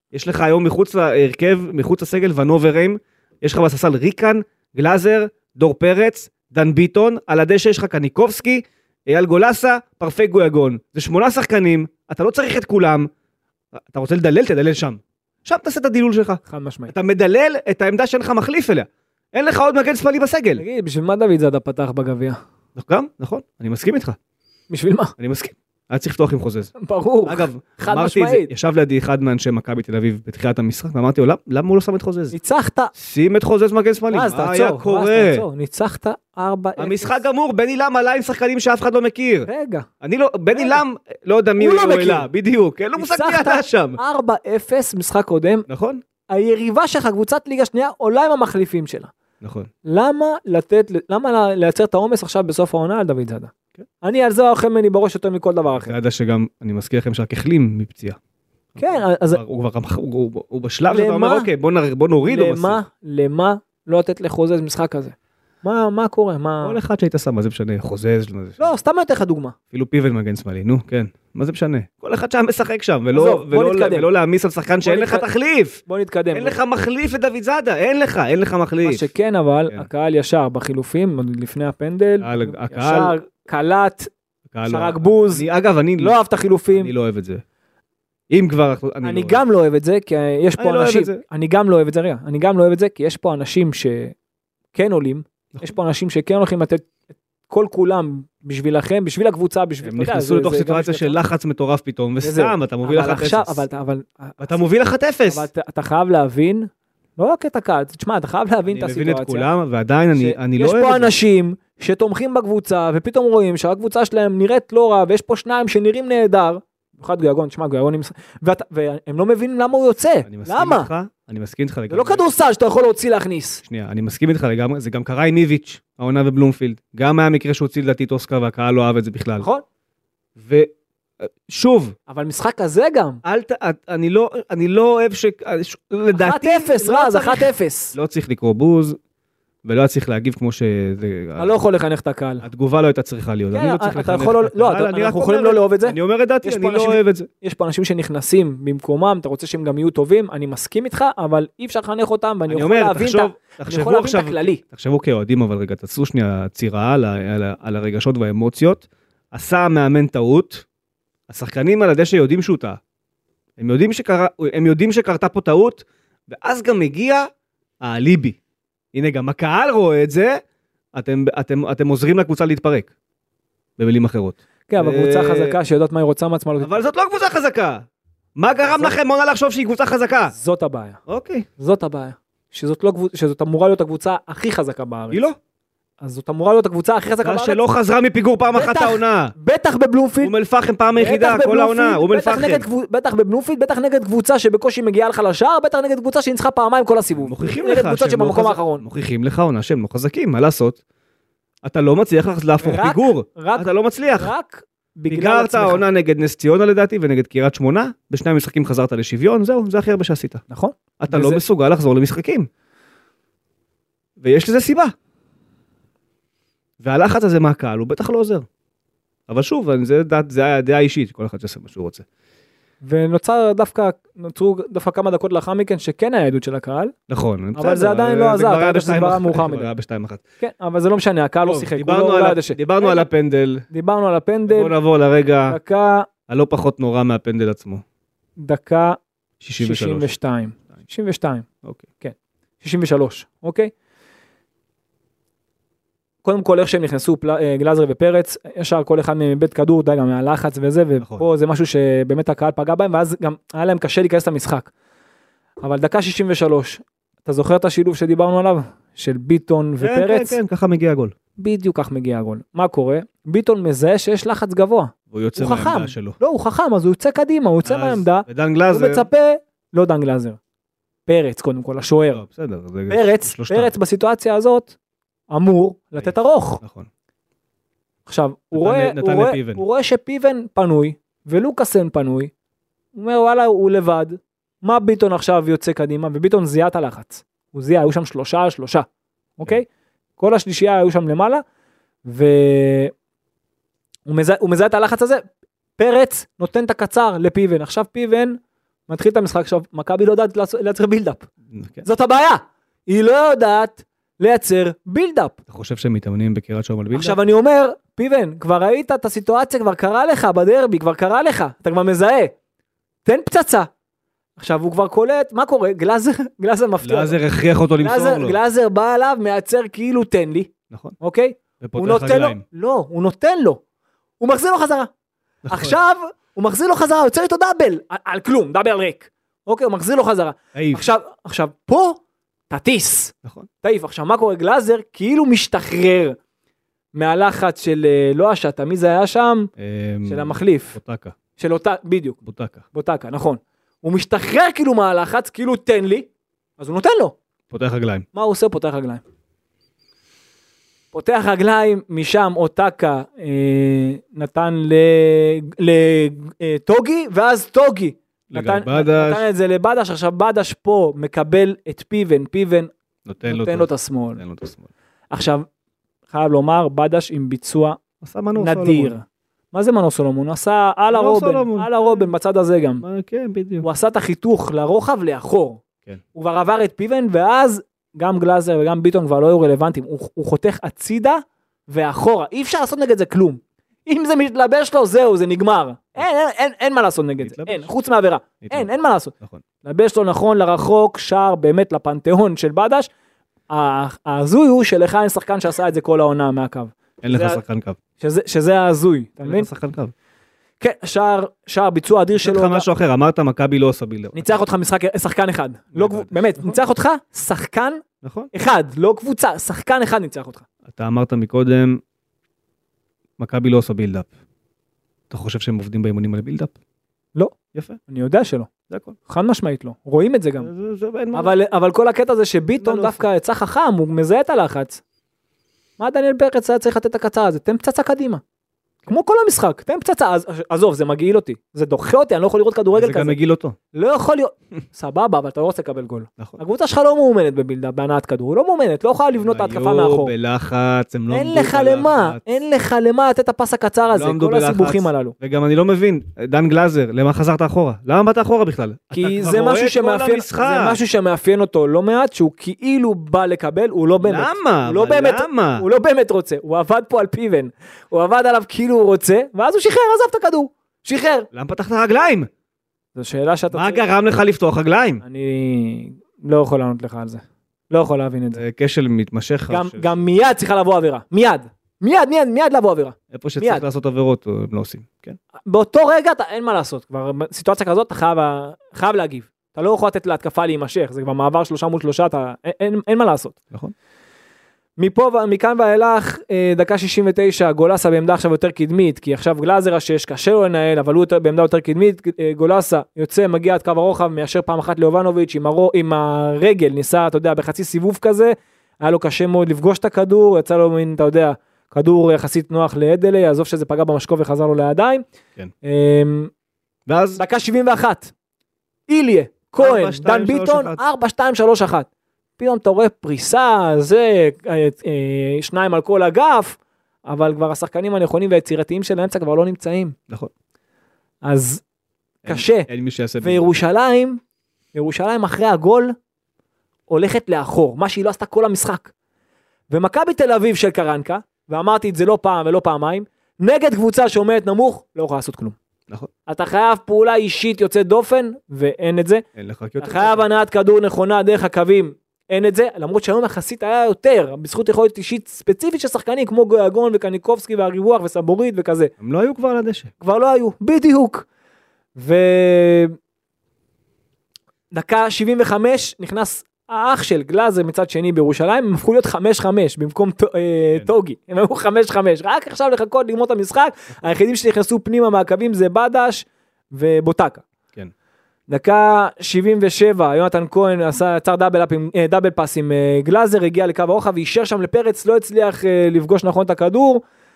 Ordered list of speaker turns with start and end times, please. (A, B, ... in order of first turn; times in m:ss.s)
0:00.1-0:13.1 A
0:13.7-0:20.6 A
0:16.5-0:16.9 B
0:20.6-0:22.4 B
0:22.8-0:24.2 A
0:24.7-0:25.1 B
0:25.2-0:26.8 A
0:26.8-0:28.5 B
0:27.3-0:32.4 A
0:32.3-0:32.9 B
0:33.0-0:35.4 A
0:34.1-0:37.2 B
0:36.8-0:39.5 A
0:39.5-0:39.9 B
0:40.0-0:44.0 A
0:40.5-0:40.8 B
0:41.6-0:42.3 B
0:43.0-0:45.7 B
0:45.7-0:46.0 A
0:46.3-0:49.1 B
0:49.4-0:49.7 A
0:49.8-0:56.0 B
0:55.8-0:58.2 A
0:58.7-1:02.8 A
0:58.8-0:59.4 B
1:00.9-1:01.5 B
1:02.3-1:06.8 B
1:06.6-1:08.7 A
1:08.6-1:09.6 B
1:09.7-1:15.8 A
1:13.1-1:14.1 B
1:14.8-1:15.3 B
1:15.9-1:16.6 B
1:16.3-1:19.1 A
1:18.8-1:24.1 B
1:22.2-1:23.1 A
1:24.5-1:26.2 A
1:24.7-1:25.5 B
1:26.0-1:26.9 B
1:26.7-1:27.4 A
1:28.3-1:29.4 A
1:29.0-1:34.2 B
1:30.6-1:31.2 A
1:34.7-1:36.9 B
1:37.5-1:41.2 B
1:39.8-1:43.6 A
1:42.2-1:44.6 B
1:44.4-1:45.5 A
1:45.3-1:49.5 B
1:48.7-1:51.1 A
1:50.2-2:00.9 B
2:00.3-2:02.2 A
2:01.9-2:03.6 B
2:03.6-2:09.5 A
2:10.4-2:12.0 A
2:12.1-2:13.2 B
2:13.2-2:19.0 A
2:16.1-2:18.0 B
2:19.6-2:21.5 A
2:21.4-2:22.4 B
2:22.4-2:27.3 A
2:23.5-2:34.6 B
2:32.5-2:40.6 A
2:41.3-2:42.8 A
2:43.6-2:47.3 A
2:47.8-2:48.4 A
2:48.9-2:50.4 A
2:50.9-2:52.9 A
2:53.8-2:55.6 A
2:54.7-2:56.8 B
2:56.6-2:57.8 A
2:58.4-3:00.3 A
3:00.3-3:01.0 B
3:01.1-3:01.5 A
3:01.6-3:05.2 B
3:05.1-3:05.4 A
3:06.0-3:07.6 B
3:07.2-3:09.3 A
3:08.5-3:10.3 B
3:10.2-3:12.7 A
3:10.9-3:18.8 B
3:17.2-3:20.8 A
3:21.6-3:24.3 A
3:22.6-3:25.8 B
3:25.1-3:30.4 A
3:30.5-3:31.4 B
3:31.0-3:32.5 A
3:34.2-3:34.9 A
3:36.8-3:38.5 A
3:39.3-3:42.0 A
3:42.8-3:46.9 B
3:47.1-3:50.2 A
3:47.6-3:49.7 B
3:50.4-3:53.1 B
3:51.4-3:53.6 A
3:53.7-3:54.8 B
3:54.5-3:55.6 A
3:55.5-3:56.1 B
3:56.3-3:57.8 A
3:58.4-3:59.0 B
3:59.4-4:00.1 A
3:59.6-4:01.5 B
4:02.0-4:03.7 B
4:06.2-4:14.7 B
4:11.0-4:11.3 A
4:15.6-4:20.4 B
4:19.8-4:21.2 A
4:21.4-4:30.4 B
4:25.1-4:26.2 A
4:27.6-4:29.1 A
4:31.1-4:32.2 B
4:32.2-4:33.7 A
4:32.9-4:34.8 B
4:35.3-4:36.6 B
4:36.0-4:36.9 A
4:38.1-4:42.3 B
4:38.5-4:39.6 A
4:42.9-4:48.9 B
4:49.4-4:49.7 B
4:50.2-4:51.4 B
4:52.0-4:52.9 B
4:54.1-4:55.2 B
4:55.8-5:01.3 B
5:01.5-5:01.9 A
5:01.8-5:05.4 B
5:05.5-5:07.2 A
5:06.9-5:12.3 B
5:13.0-5:13.7 B
5:14.4-5:17.2 B
5:16.8-5:18.4 A
5:17.8-5:23.6 B
5:20.7-5:21.0 A
5:21.6-5:22.4 A
5:24.2-5:24.9 B
5:25.4-5:25.8 A
5:25.5-5:36.2 B
5:30.5-5:30.9 A
5:36.9-5:39.5 B
5:39.6-5:41.2 A
5:40.0-5:40.8 B
5:41.4-5:42.2 B
5:42.2-5:42.6 A
5:42.7-5:47.2 B
5:47.5-5:48.1 A
5:48.1-5:49.0 B
5:50.9-6:02.7 B
5:58.3-5:59.3 A
6:03.1-6:04.7 A
6:03.2-6:04.2 B
6:05.1-6:05.5 B
6:06.1-6:07.8 B
6:08.0-6:08.9 A
6:08.4-6:12.8 B
6:10.9-6:12.1 A
6:12.8-6:13.7 A
6:13.6-6:15.6 B
6:16.1-6:32.9 B
6:27.2-6:27.7 A
6:28.4-6:28.7 A
6:33.5-6:37.4 B
6:37.0-6:37.8 A
6:38.0-6:39.5 B
6:39.2-6:39.9 A
6:40.6-6:42.7 B
6:42.2-6:44.4 A
6:44.1-6:50.4 B
6:45.7-6:46.6 A
6:48.0-6:48.3 A
6:50.7-6:51.8 A
6:53.2-6:54.1 A
6:55.1-6:56.5 A
6:57.5-6:57.8 A
6:57.9-6:58.5 B
6:58.7-6:59.0 A
6:59.1-7:00.5 B
7:00.4-7:01.3 A
7:01.1-7:04.8 B
7:02.6-7:03.0 A
7:05.8-7:08.2 B
7:08.9-7:13.2 B
7:12.7-7:13.6 A
7:13.7-7:20.1 B
7:19.2-7:22.2 A
7:21.1-7:25.2 B
7:23.9-7:30.8 A
7:28.9-7:41.3 B
7:34.0-7:35.6 A
7:41.3-7:42.3 A
7:43.0-7:43.9 B
7:43.5-7:45.0 A
7:45.0-7:48.4 B
7:48.4-7:49.9 A
7:49.5-7:53.6 B
7:53.1-7:55.2 A
7:55.5-8:03.4 B
8:04.8-8:25.0 B
8:25.6-8:26.3 B
8:26.9-8:27.2 A
8:27.2-8:28.1 B
8:28.9-8:40.0 B
8:29.6-8:30.8 A
8:41.2-8:41.6 B
8:42.2-8:42.7 B
8:42.2-8:43.5 A
8:43.2-8:44.2 B
8:44.7-8:46.0 B
8:46.9-8:48.9 B
8:49.7-8:55.6 B
8:56.3-8:59.2 B
8:59.4-9:00.3 A
8:59.8-9:08.9 B
9:09.0-9:09.9 A
9:10.0-9:11.3 B
9:12.0-9:13.0 B
9:14.7-9:27.4 B
9:28.5-9:37.0 B